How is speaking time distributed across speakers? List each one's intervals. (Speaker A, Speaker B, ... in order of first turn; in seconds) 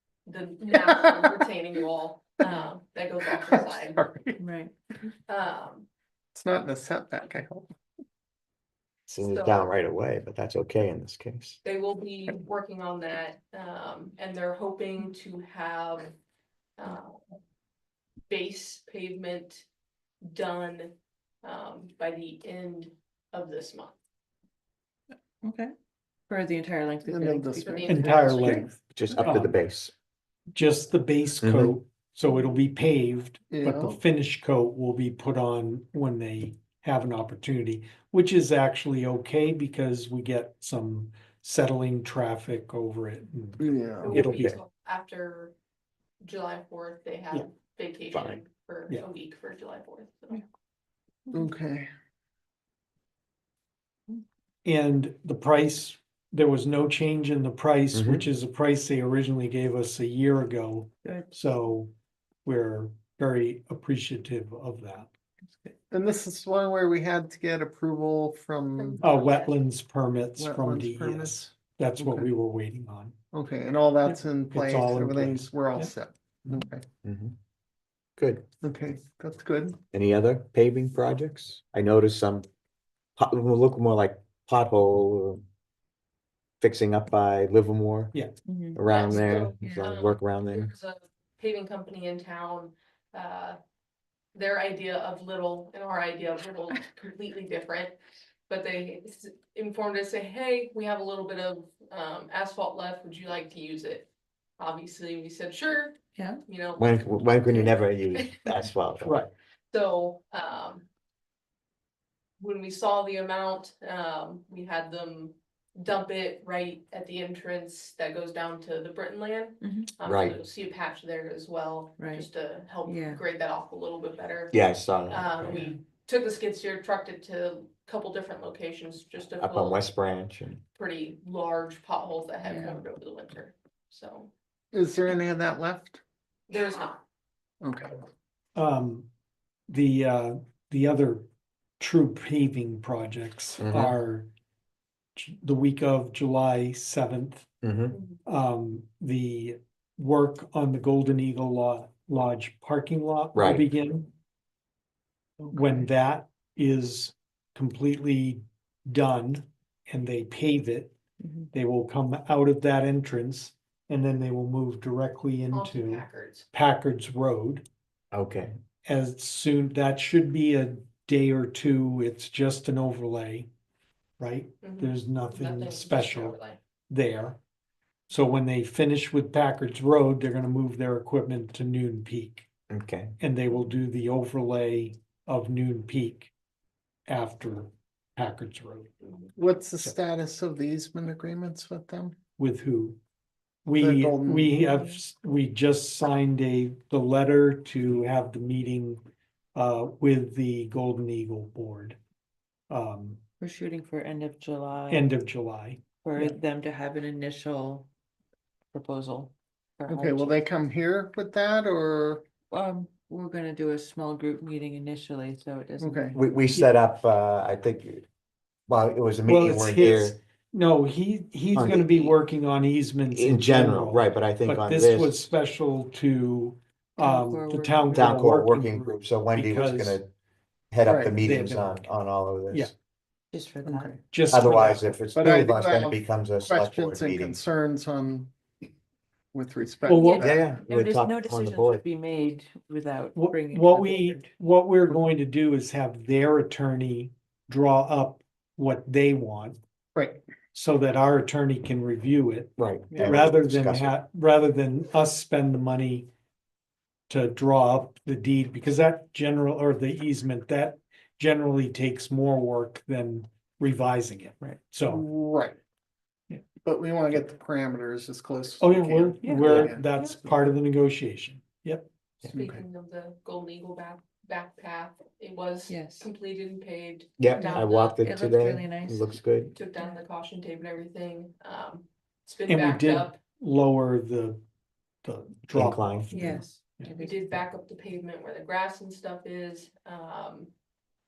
Speaker A: 0.2-4.0, 5.3-5.9, 9.2-9.7, 11.6-16.1, 16.8-17.2, 18.3-19.6, 20.2-23.9, 27.6-28.4, 44.0-45.5, 46.2-50.4, 68.8-69.6, 88.9-93.6, 94.3-98.0, 98.5-108.6, 109.7-110.9, 112.4-129.8, 130.8-134.3, 136.5-137.0, 165.5-166.5, 174.6-176.6, 189.0-189.3, 272.3-278.0, 279.5-283.2, 286.9-290.5
Speaker B: 0.9-1.4, 3.3-4.4, 6.3-7.7, 27.0-28.8, 33.5-34.0, 43.6-44.3, 51.3-51.9, 65.9-69.0, 70.4-72.3, 73.3-76.8, 78.6-79.8, 134.7-136.0, 137.6-138.0, 155.4-155.9, 189.3-192.2, 193.8-194.6, 209.9-212.2, 215.8-216.2, 230.8-231.2, 233.6-234.0, 235.1-238.3, 239.3-240.4, 249.9-250.2, 264.8-265.6, 266.6-269.8, 272.3-272.6
Speaker C: 4.3-4.7, 25.4-25.7, 26.3-28.6, 61.0-61.3, 65.5-65.7, 88.4-88.8, 89.6-89.9, 106.1-106.4, 119.6-119.9, 122.0-122.3, 122.8-123.2, 125.5-125.7, 132.4-132.8, 161.2-161.5, 194.5-195.0, 203.4-205.1, 206.0-207.9, 208.7-210.4, 212.5-216.1, 221.7-222.2, 227.0-228.2, 233.3-234.0, 239.9-244.3, 252.9-253.3, 269.2-270.3, 275.7-276.1, 277.4-279.1, 286.1-287.2
Speaker D: 9.1-11.6, 28.9-29.9, 31.4-31.7, 48.1-48.4, 57.9-58.2, 77.0-77.3, 78.2-78.4, 79.9-82.5, 83.2-85.4, 86.6-88.1, 88.7-90.7, 106.8-109.2, 120.0-120.4, 124.5-125.6, 129.4-130.6, 143.6-143.9, 147.6-148.0, 153.3-153.7, 168.1-168.5, 182.7-183.1, 216.1-218.1, 218.7-220.2, 221.5-221.8, 223.1-225.2, 227.9-230.1, 230.7-232.7, 234.3-237.4, 240.2-241.8, 252.6-253.9, 277.2-279.5, 285.5-286.1
Speaker E: 27.9-29.6, 30.5-44.6, 54.6-61.9, 62.4-65.1, 69.0-73.2, 74.5-75.9, 109.0-109.3, 138.6-139.1, 139.7-141.2, 141.8-144.3, 145.2-147.6, 148.2-154.1, 155.5-160.9, 161.5-167.6, 168.8-173.5, 174.2-176.4, 176.9-177.4, 178.1-182.5, 183.2-186.3, 187.1-188.9, 192.4-193.0, 193.6-199.0, 199.5-202.0, 202.7-203.2, 204.9-206.3, 219.2-230.0, 231.2-231.8, 234.1-235.4, 239.9-240.3, 243.1-249.6, 250.5-256.1, 257.1-265.1, 268.6-271.9, 282.5-284.4, 285.0-286.9